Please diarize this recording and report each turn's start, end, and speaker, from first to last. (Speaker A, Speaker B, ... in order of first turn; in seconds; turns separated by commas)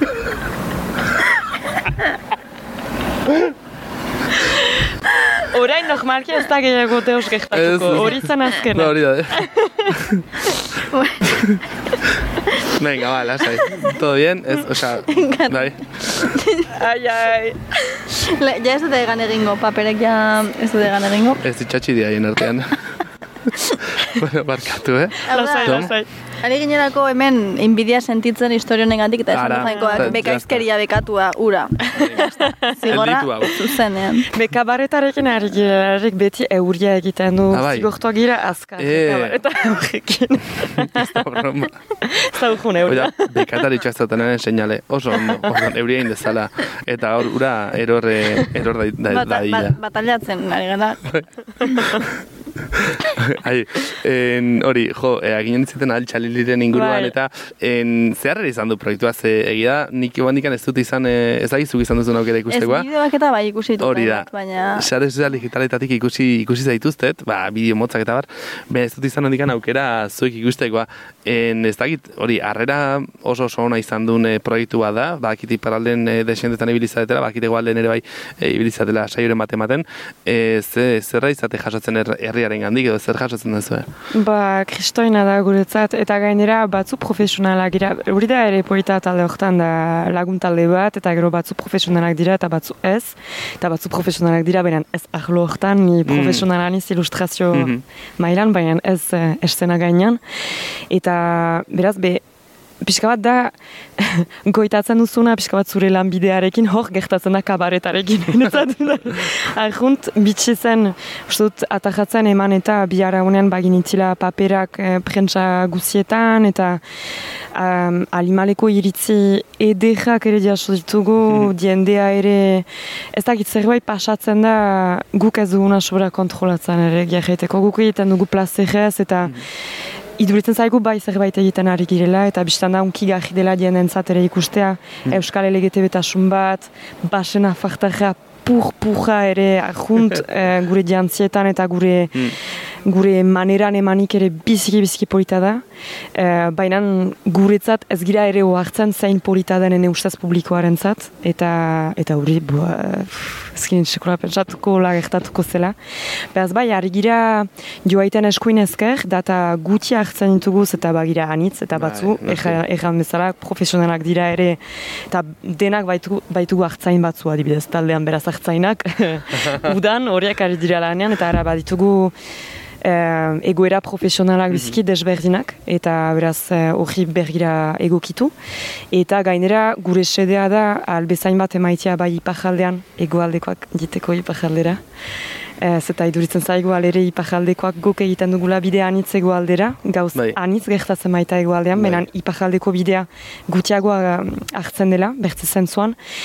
Speaker A: 5.5-9.8, Speaker B: 7.5-10.3, Speaker C: 10.9-11.4, Speaker B: 11.3-11.6, Speaker B: 12.7-15.8, Speaker C: 15.1-16.7, Speaker A: 16.7-17.6, Speaker C: 18.1-21.4, Speaker B: 21.4-22.9, Speaker B: 24.0-25.9, Speaker A: 25.3-26.1, Speaker C: 25.3-34.3, Speaker B: 29.3-30.6, Speaker A: 29.6-30.2, Speaker A: 32.0-33.0, Speaker B: 32.9-33.6, Speaker A: 34.3-41.4, Speaker B: 37.5-37.9, Speaker B: 38.8-39.4, Speaker B: 40.9-41.8, Speaker A: 42.0-43.7, Speaker B: 42.9-49.8, Speaker A: 45.1-45.7, Speaker C: 49.1-51.0, Speaker B: 52.7-62.9, Speaker A: 56.7-57.1, Speaker C: 62.5-64.9, Speaker B: 63.8-83.9, Speaker A: 84.2-100.2, Speaker B: 96.1-96.5, Speaker B: 97.5-97.8, Speaker A: 100.9-102.2, Speaker A: 102.8-116.8, Speaker A: 117.5-129.4, Speaker A: 130.2-142.3, Speaker A: 142.9-145.6, Speaker A: 146.2-155.8, Speaker A: 156.3-164.6, Speaker B: 161.8-162.6, Speaker A: 165.1-172.1, Speaker A: 172.8-178.3, Speaker B: 174.5-174.8, Speaker A: 178.9-184.8, Speaker A: 185.6-196.0, Speaker B: 191.7-192.1